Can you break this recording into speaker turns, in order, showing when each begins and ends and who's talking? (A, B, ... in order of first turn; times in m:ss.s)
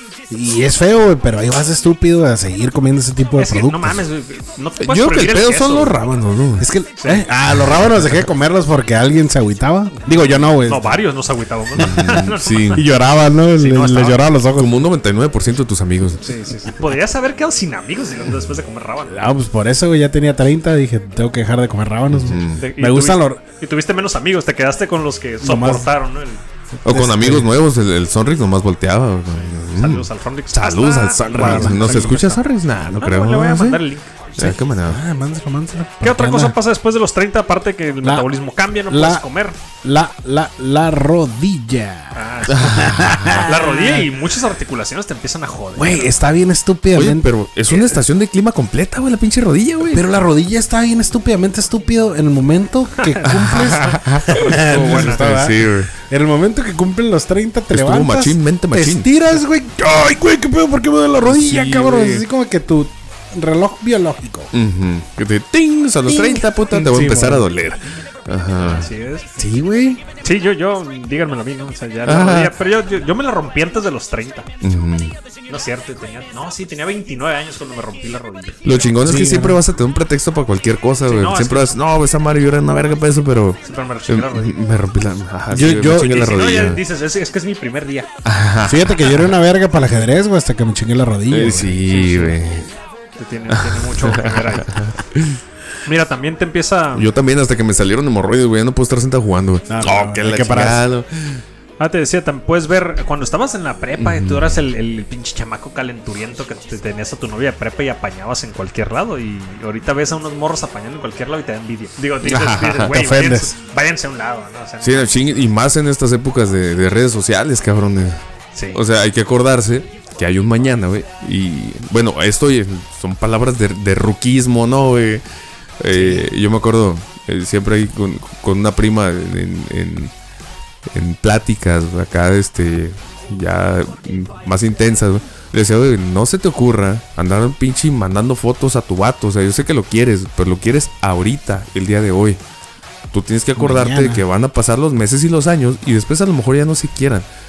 0:00.3-0:04.0 A
0:03.4-0:06.0 B
0:04.8-0:06.7 C
0:06.6-0:11.0 A
0:07.0-0:07.2 B
0:10.1-0:12.8 B
0:11.8-0:12.8 C
0:12.7-0:14.8 A
0:13.6-0:14.2 B
0:14.5-0:16.2 C
0:16.2-0:19.2 B
0:19.1-0:23.4 A
0:22.1-0:22.6 C
0:22.6-0:26.4 B
0:25.4-0:25.9 A
0:26.8-0:27.5 A
0:26.8-0:33.8 C
0:29.4-0:32.4 B
0:31.3-0:32.2 A
0:32.9-0:34.5 B
0:34.4-0:35.0 C
0:34.4-0:36.6 A
0:36.0-0:39.6 B
0:38.0-0:38.3 A
0:38.9-0:39.2 A
0:39.8-0:44.1 A
0:42.1-0:42.9 B
0:42.5-0:43.4 C
0:43.4-0:46.1 B
0:45.7-0:47.3 A
0:46.9-0:50.1 C
0:47.7-0:48.0 B
0:49.9-1:04.5 A
0:53.3-0:55.9 C
0:54.7-0:55.2 B
0:57.7-0:59.1 C
1:01.2-1:02.2 C
1:04.5-1:08.9 C
1:06.1-1:07.5 A
1:08.6-1:09.3 B
1:09.4-1:10.0 A
1:10.2-1:14.5 B
1:12.0-1:12.5 C
1:14.6-1:15.1 C
1:15.5-1:18.9 B
1:18.6-1:26.8 C
1:19.0-1:19.6 A
1:21.1-1:21.8 B
1:23.6-1:24.6 B
1:25.5-1:26.2 A
1:25.9-1:28.1 B
1:28.2-1:29.3 C
1:28.6-1:31.8 A
1:31.3-1:32.7 C
1:31.8-1:32.4 B
1:33.2-1:34.8 B
1:33.5-1:35.4 C
1:35.8-1:37.1 B
1:36.9-1:41.4 C
1:39.7-1:40.8 A
1:41.8-1:55.1 B
1:44.0-1:44.6 C
1:52.2-1:53.0 C
1:52.9-1:53.5 A
1:54.8-1:58.2 C
1:58.5-1:58.8 B
1:58.7-2:05.2 C
2:05.8-2:10.1 C
2:05.9-2:06.3 B
2:10.9-2:22.4 C
2:23.1-2:27.2 C
2:23.6-2:24.2 A